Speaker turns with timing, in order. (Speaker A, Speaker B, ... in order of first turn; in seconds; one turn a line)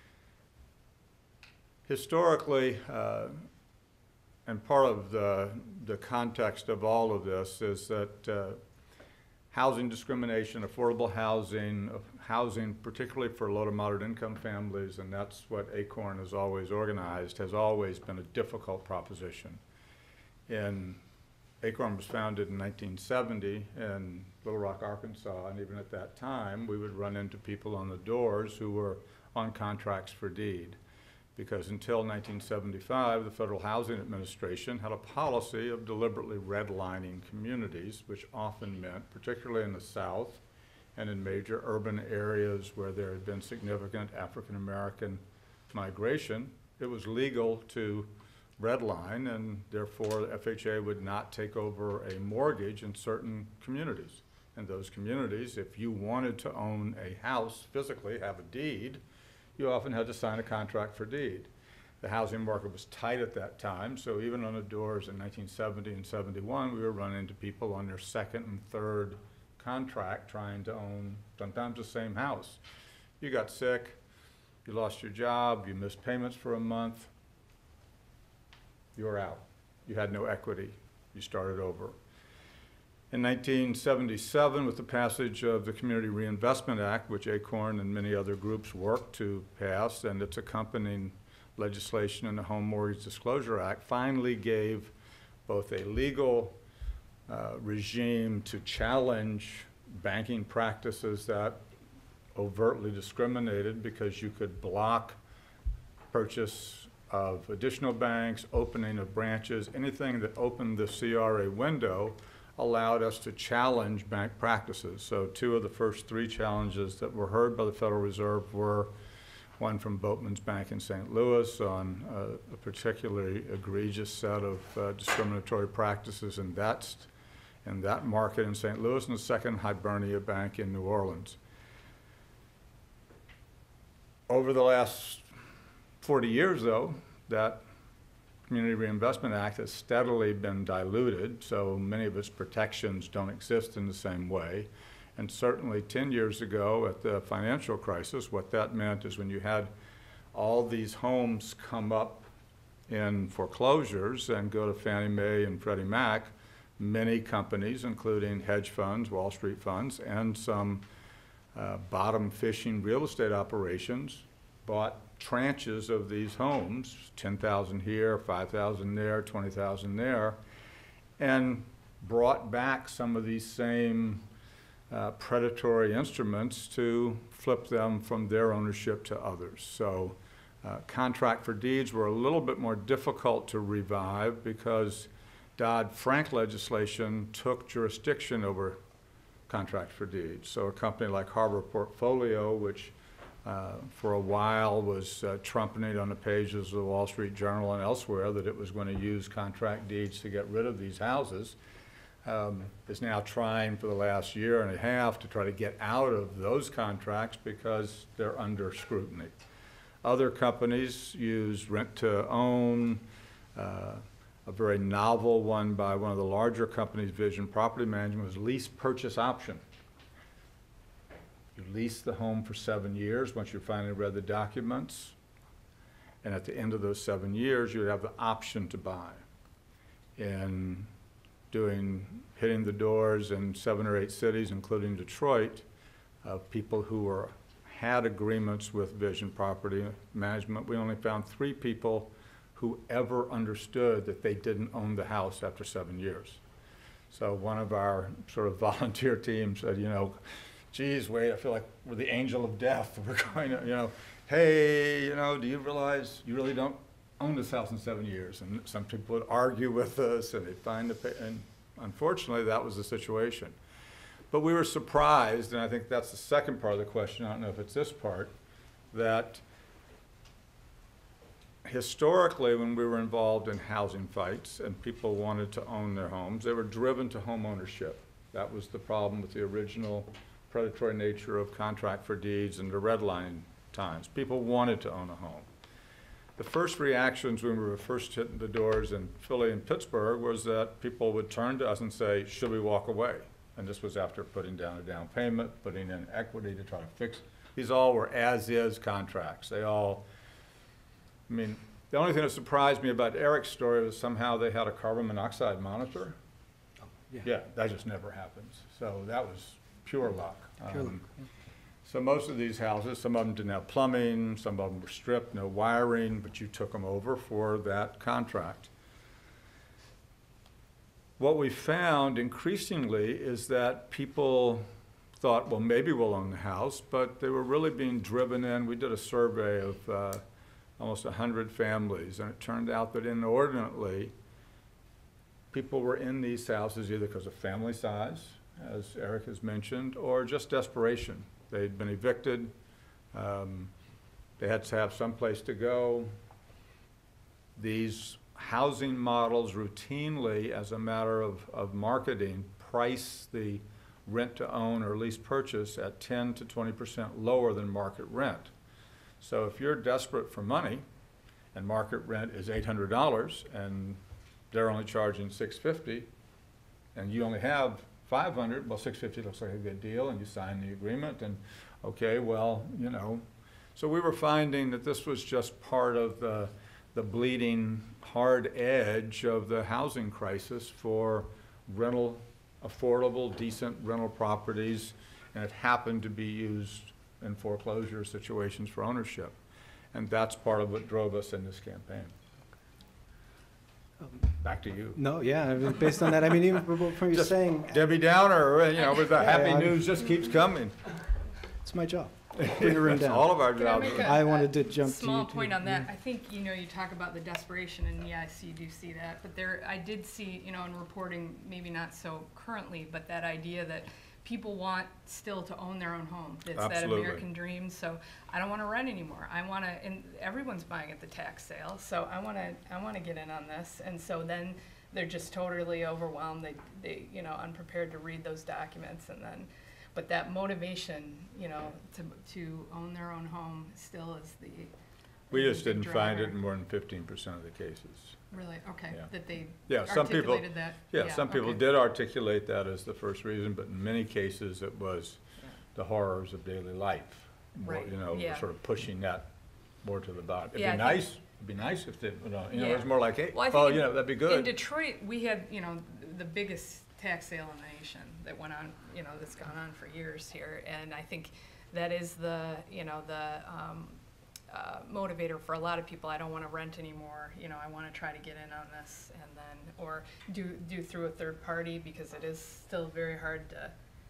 Speaker A: 1.9-3.4
Speaker A: 4.5-8.6
Speaker A: 9.5-19.6
Speaker A: 20.5-21.0
Speaker A: 21.6-30.8
Speaker A: 31.4-40.4
Speaker A: 41.0-59.0
Speaker A: 59.6-61.5
Speaker A: 62.0-72.6
Speaker A: 73.2-74.0
Speaker A: 74.6-77.1
Speaker A: 78.9-82.0
Speaker A: 83.1-94.9
Speaker A: 95.5-96.6
Speaker A: 97.3-101.6
Speaker A: 102.3-105.2
Speaker A: 106.1-118.9
Speaker A: 119.6-127.1
Speaker A: 127.6-131.4
Speaker A: 134.3-135.3
Speaker A: 136.0-137.6
Speaker A: 138.5-149.7
Speaker A: 150.3-152.3
Speaker A: 152.9-160.8
Speaker A: 161.5-170.4
Speaker A: 171.2-174.2
Speaker A: 174.9-188.8
Speaker A: 189.5-192.9
Speaker A: 193.4-201.6
Speaker A: 202.2-209.3
Speaker A: 210.0-213.0
Speaker A: 213.5-219.6
Speaker A: 221.5-225.1
Speaker A: 226.2-229.2
Speaker A: 230.2-230.9
Speaker A: 231.5-235.7
Speaker A: 236.2-246.4
Speaker A: 247.1-250.2
Speaker A: 250.7-263.6
Speaker A: 264.3-268.3
Speaker A: 268.9-269.4
Speaker A: 271.6-285.5
Speaker A: 286.4-300.1
Speaker A: 301.3-306.1
Speaker B: 306.8-307.3
Speaker A: 307.2-311.0
Speaker B: 310.7-311.0
Speaker A: 311.8-318.7
Speaker A: 321.2-324.6
Speaker A: 325.2-330.2
Speaker A: 330.8-334.1
Speaker A: 335.5-342.5
Speaker A: 343.1-343.7
Speaker A: 344.4-346.1
Speaker A: 347.6-358.5
Speaker A: 359.2-360.8
Speaker A: 361.5-364.0
Speaker A: 364.5-366.1
Speaker A: 366.9-373.2
Speaker A: 373.8-389.4
Speaker A: 389.9-392.1
Speaker B: 394.0-394.3
Speaker A: 394.4-395.0
Speaker B: 394.9-397.9
Speaker A: 397.1-400.8
Speaker B: 399.1-399.9
Speaker B: 401.6-405.9
Speaker A: 402.4-404.2
Speaker C: 403.5-434.7
Speaker A: 416.5-417.2
Speaker C: 435.3-436.4
Speaker A: 435.3-438.2
Speaker C: 438.3-441.6
Speaker A: 439.7-445.2
Speaker A: 445.7-449.3
Speaker C: 447.6-448.4
Speaker A: 449.8-454.5
Speaker C: 450.5-451.0
Speaker C: 452.5-464.0
Speaker C: 464.5-473.7